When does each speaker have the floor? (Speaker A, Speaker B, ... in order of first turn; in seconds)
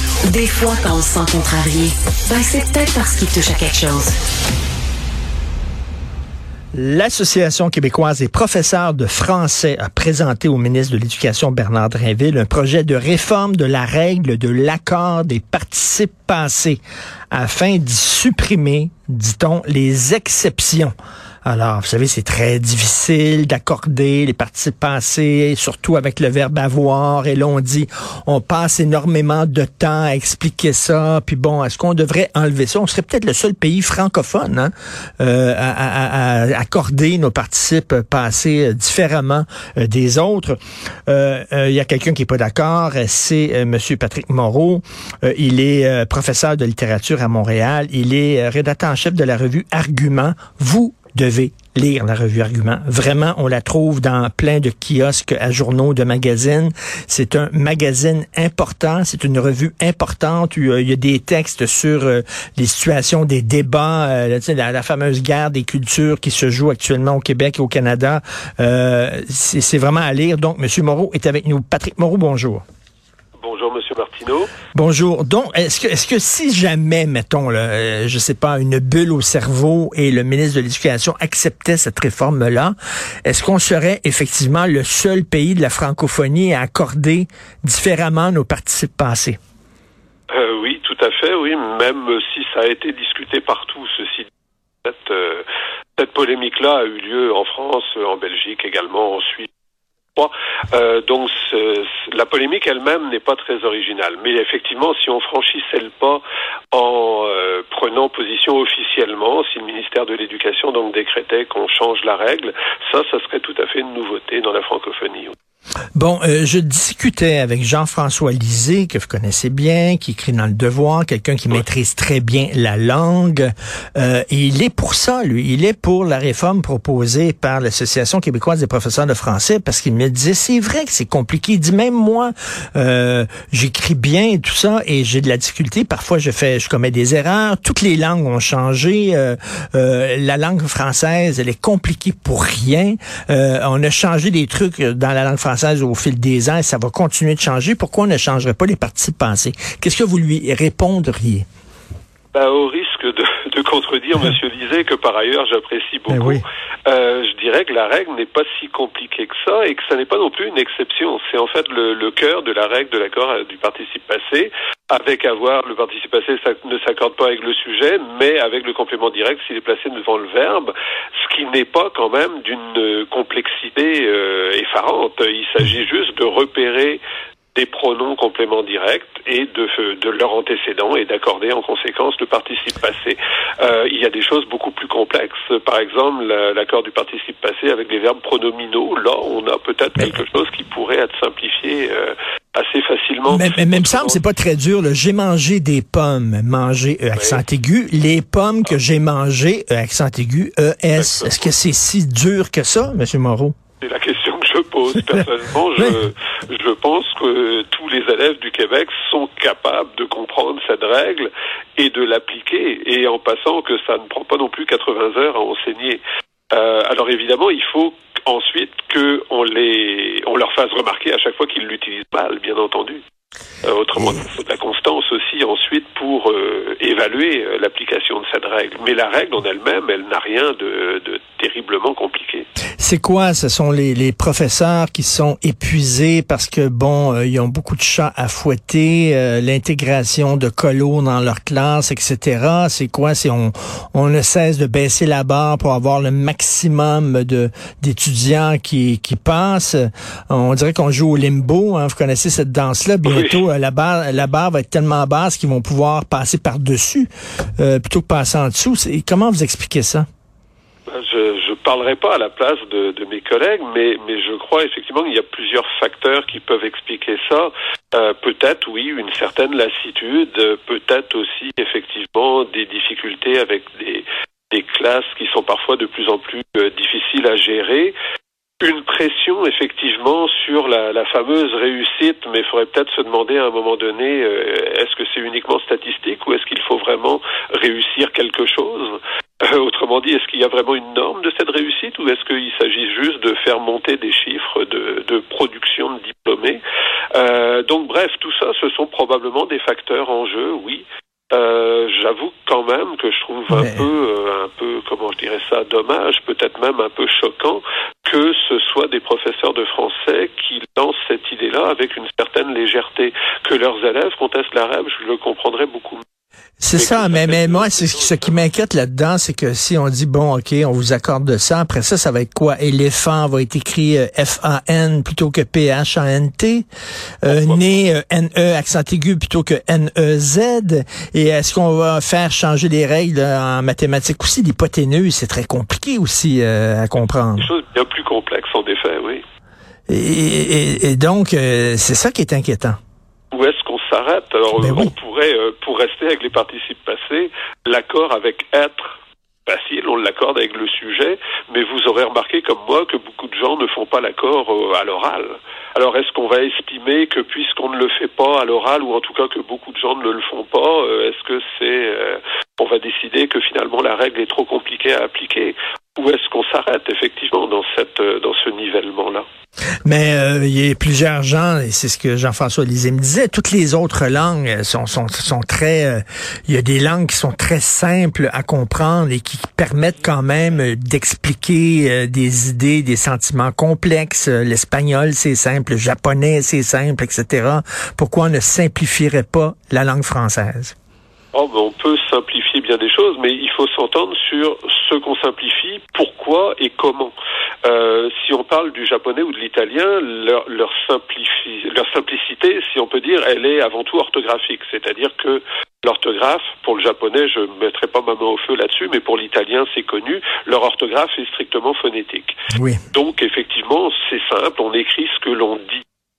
Speaker A: 0.2-4.1
Speaker B: 6.8-20.9, 21.4-72.6, 74.7-89.4, 116.0-151.5, 156.1-156.4, 193.3-203.6, 232.8-260.1, 303.5-303.9, 316.6-326.7, 327.2-337.5, 339.9-342.8, 344.6-344.9, 369.9-390.8, 412.5-412.8
Speaker C: 73.4-74.5, 90.3-94.3, 94.8-95.5, 96.0-99.5, 100.2-115.3, 152.3-170.7, 171.2-177.0, 177.5-194.2, 197.2-197.4, 200.9-201.5, 203.8-223.0, 223.6-232.5, 253.1-253.4, 260.9-277.9, 278.6-296.6, 297.1-316.0, 316.7-318.4, 327.2-327.8, 337.4-339.2, 343.3-369.2, 391.3-412.4, 412.9-415.8